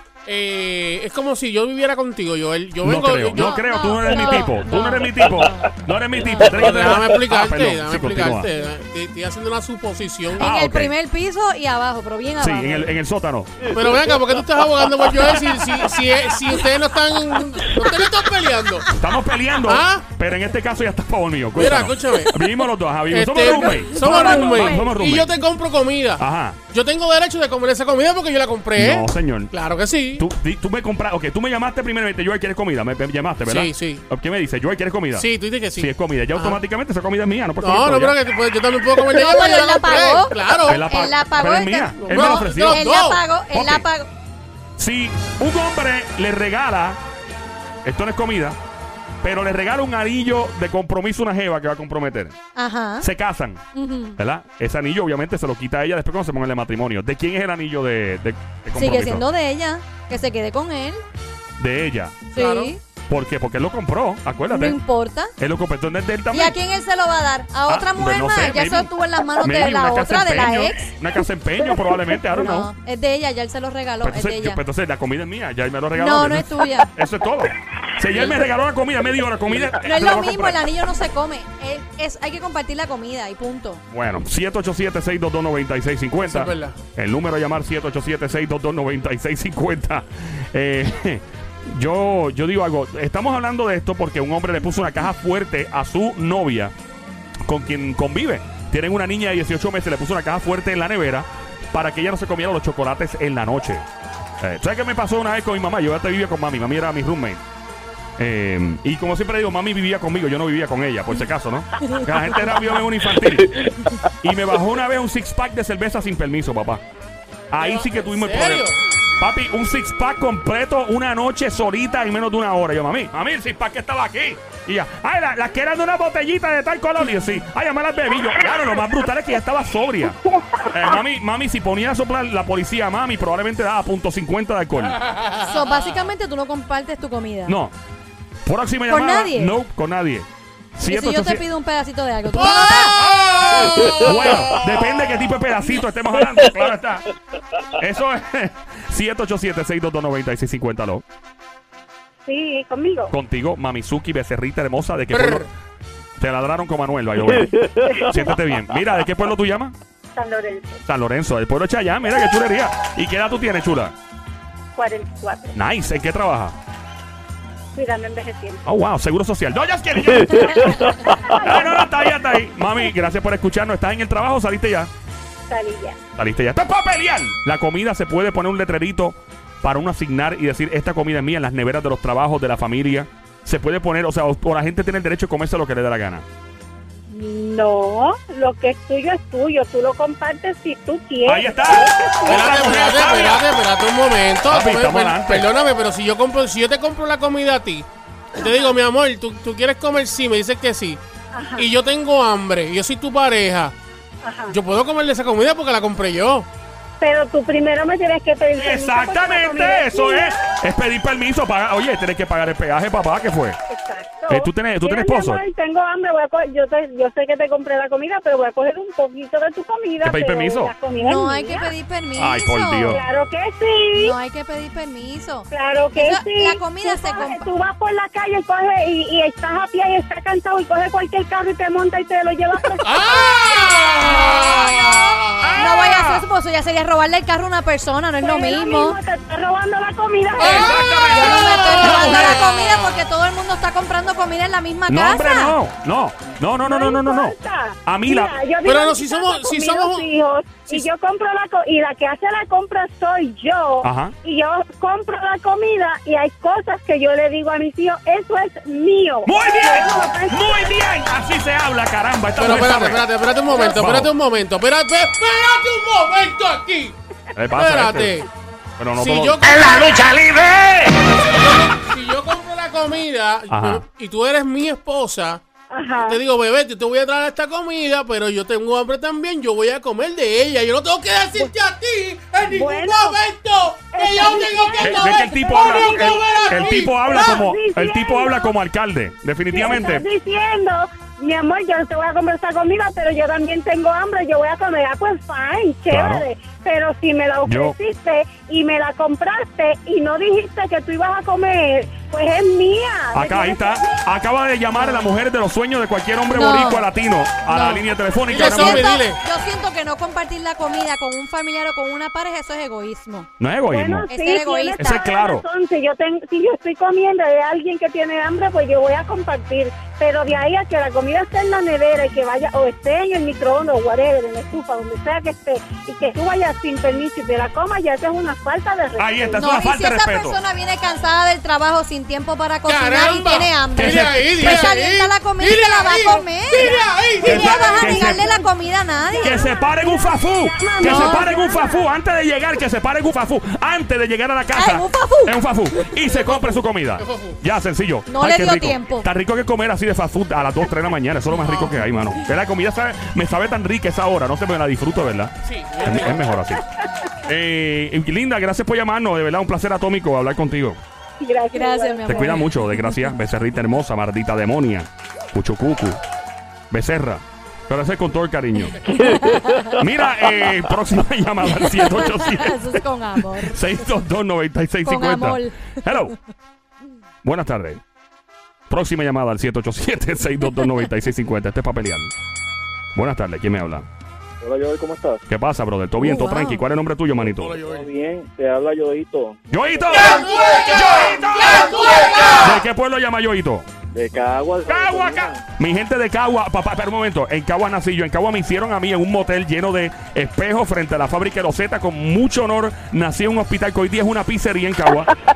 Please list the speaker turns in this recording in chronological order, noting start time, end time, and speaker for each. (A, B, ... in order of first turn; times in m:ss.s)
0:00.2-0:03.6 A
0:02.8-0:08.5 B
0:03.3-0:06.5 C
0:06.4-0:10.5 A
0:10.4-0:10.9 B
0:10.4-0:12.9 C
0:12.4-0:13.8 B
0:13.7-0:18.9 A
0:18.9-0:25.3 B
0:19.6-0:20.1 A
0:21.5-0:22.5 A
0:23.1-0:30.3 A
0:23.5-0:25.0 C
0:26.2-0:26.6 B
0:28.8-0:29.5 B
0:30.2-0:38.2 B
0:33.4-0:34.0 A
0:35.1-0:36.6 A
0:37.6-0:41.0 A
0:39.1-0:44.1 C
0:40.6-0:42.9 B
0:42.0-0:43.2 A
0:43.5-0:43.8 B
0:44.8-0:47.0 B
0:47.8-0:48.6 B
0:49.2-0:52.4 B
0:52.6-0:53.1 C
0:53.0-0:53.6 B
0:53.7-0:54.2 C
0:54.2-0:59.3 B
0:58.8-1:01.0 C
1:01.6-1:04.8 B
1:02.3-1:02.8 C
1:04.5-1:05.3 C
1:05.4-1:06.6 B
1:06.3-1:10.9 C
1:07.7-1:12.7 B
1:12.2-1:14.6 C
1:14.0-1:20.6 B
1:15.9-1:16.9 C
1:18.1-1:18.4 A
1:19.8-1:23.8 C
1:23.9-1:36.7 B
1:26.2-1:26.8 A
1:37.4-1:43.8 B
1:44.4-1:47.4 B
1:48.2-1:56.8 B
1:57.5-1:58.7 B
1:57.6-1:58.8 A
1:59.2-2:15.0 B
2:15.3-2:17.6 C
2:17.5-2:17.7 B
2:18.4-2:21.4 B
2:18.9-2:19.5 C
2:20.9-2:23.0 C
2:22.3-2:24.6 A
2:22.4-2:23.0 B
2:23.8-2:27.0 B
2:27.8-2:31.0 B
2:32.2-2:33.1 D
2:33.1-2:35.5 B
2:35.1-2:35.5 A
2:36.2-2:39.7 B
2:40.1-2:40.8 D
2:40.9-2:43.9 B
2:44.7-2:45.6 D
2:45.5-2:46.6 B
2:47.7-2:48.6 D
2:48.6-2:54.9 B
2:51.1-2:51.7 D
2:55.5-2:56.0 D
2:56.2-3:06.2 B
3:07.1-3:12.9 D
3:11.2-3:13.4 B
3:12.2-3:21.0 A
3:14.5-3:15.5 B
3:18.4-3:18.7 D
3:21.3-3:21.7 D
3:21.6-3:23.7 A
3:24.2-3:24.6 D
3:24.5-3:26.5 A
3:27.0-3:30.4 D
3:28.6-3:33.6 B
3:33.7-3:41.7 D
3:34.3-3:35.4 B
3:40.0-3:40.7 B
3:41.0-3:43.0 C
3:42.2-3:43.0 B
3:42.9-3:44.1 D
3:43.9-3:47.5 C
3:45.5-3:53.4 D
3:52.8-3:55.7 A
3:53.4-3:59.0 C
3:55.4-3:56.2 B
3:58.2-4:00.9 D
4:00.4-4:02.4 B
4:00.4-4:02.4 A
4:00.7-4:05.6 C
4:04.9-4:08.4 B
4:06.6-4:20.7 D
4:08.6-4:10.1 A
4:13.8-4:14.1 B
4:19.2-4:24.1 B
4:22.4-4:27.0 A
4:27.3-4:28.2 B
4:27.5-4:28.2 A
4:28.8-4:29.4 B
4:28.9-4:30.3 A
4:31.1-4:35.4 A
4:33.5-4:33.8 B
4:35.7-4:36.2 D
4:36.0-4:47.4 A
4:42.4-4:43.2 D
4:43.9-4:48.5 D
4:44.8-4:50.0 B
4:49.5-5:03.7 D
4:55.9-4:56.3 B
4:57.4-4:57.8 B
5:03.1-5:08.9 B
5:04.8-5:05.0 C
5:06.3-5:06.9 C
5:07.5-5:07.8 C
5:08.3-5:09.2 A
5:08.4-5:13.3 C
5:13.4-5:14.1 B
5:13.7-5:29.4 D
5:14.1-5:14.9 C
5:14.8-5:15.4 B
5:29.0-5:30.4 B
5:29.3-5:39.5 C
5:32.6-5:37.7 A
5:33.7-5:34.7 B
5:36.5-5:38.5 D
5:37.2-5:38.2 B
5:39.1-5:41.9 D
5:39.2-5:56.6 B
5:40.8-5:41.4 C
5:44.5-5:45.4 C
5:46.0-5:47.4 A
5:48.0-5:49.1 C
5:55.4-5:56.3 A
5:57.2-6:00.8 B
6:01.2-6:02.4 D
6:01.5-6:03.1 C
6:02.1-6:06.0 B
6:06.7-6:09.0 B
6:08.9-6:09.7 C
6:09.7-6:12.8 B
6:11.5-6:13.7 C
6:13.4-6:16.1 B
6:14.8-6:15.8 C
6:17.2-6:17.8 B
6:18.7-6:22.1 B
6:22.9-6:23.8 B
6:24.4-6:25.2 E
6:25.3-6:27.6 B
6:26.0-6:26.6 C
6:27.2-6:27.9 A
6:27.6-6:30.6 E
6:29.5-6:33.7 B
6:29.9-6:32.6 A
6:33.9-6:35.4 E
6:34.7-6:45.1 B